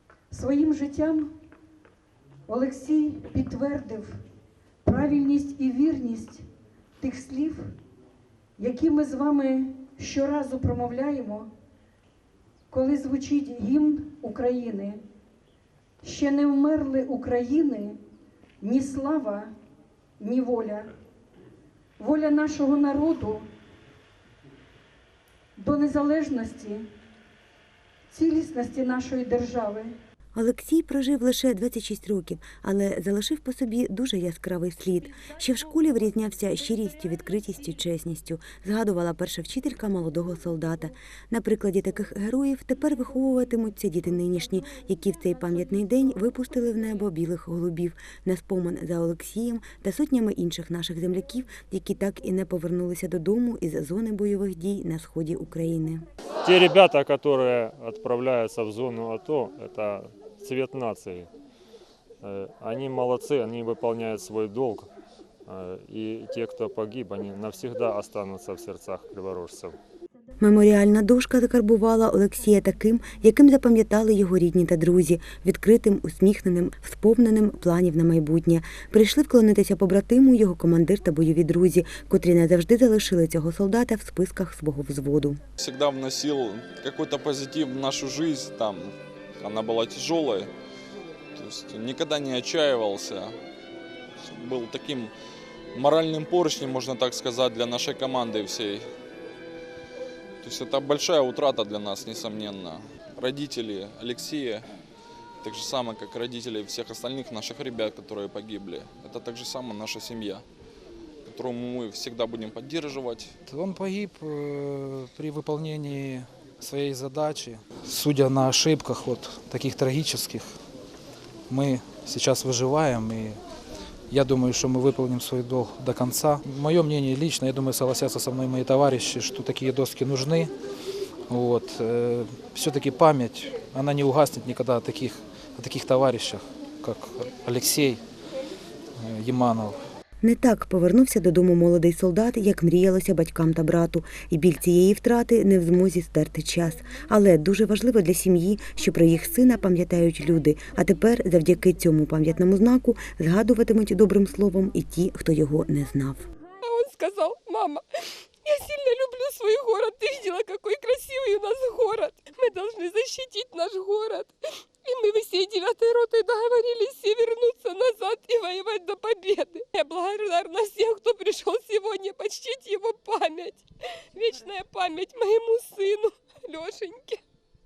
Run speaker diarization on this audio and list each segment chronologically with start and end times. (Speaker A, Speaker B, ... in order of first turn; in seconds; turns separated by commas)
Speaker A: 0.3-1.3, Speaker A: 2.5-4.1, Speaker A: 4.8-6.4, Speaker A: 7.0-7.7, Speaker A: 8.6-11.5, Speaker A: 12.7-15.0, Speaker A: 16.0-18.0, Speaker A: 18.6-19.5, Speaker A: 20.2-20.9, Speaker A: 22.0-23.5, Speaker A: 25.6-26.8, Speaker A: 28.1-29.9, Speaker B: 30.3-56.0, Speaker C: 56.4-61.3, Speaker C: 62.2-64.9, Speaker C: 65.5-69.8, Speaker B: 70.4-85.4, Speaker D: 85.6-90.5, Speaker D: 91.3-93.3, Speaker D: 94.2-95.1, Speaker D: 95.7-98.8, Speaker D: 100.4-104.6, Speaker D: 105.4-110.4, Speaker D: 111.2-113.3, Speaker E: 113.5-120.5, Speaker E: 121.5-123.4, Speaker E: 124.1-130.5, Speaker E: 131.3-138.0, Speaker E: 139.0-139.7, Speaker B: 140.2-156.3, Speaker F: 156.6-157.8, Speaker F: 158.4-164.3, Speaker F: 164.8-173.6, Speaker F: 174.1-177.2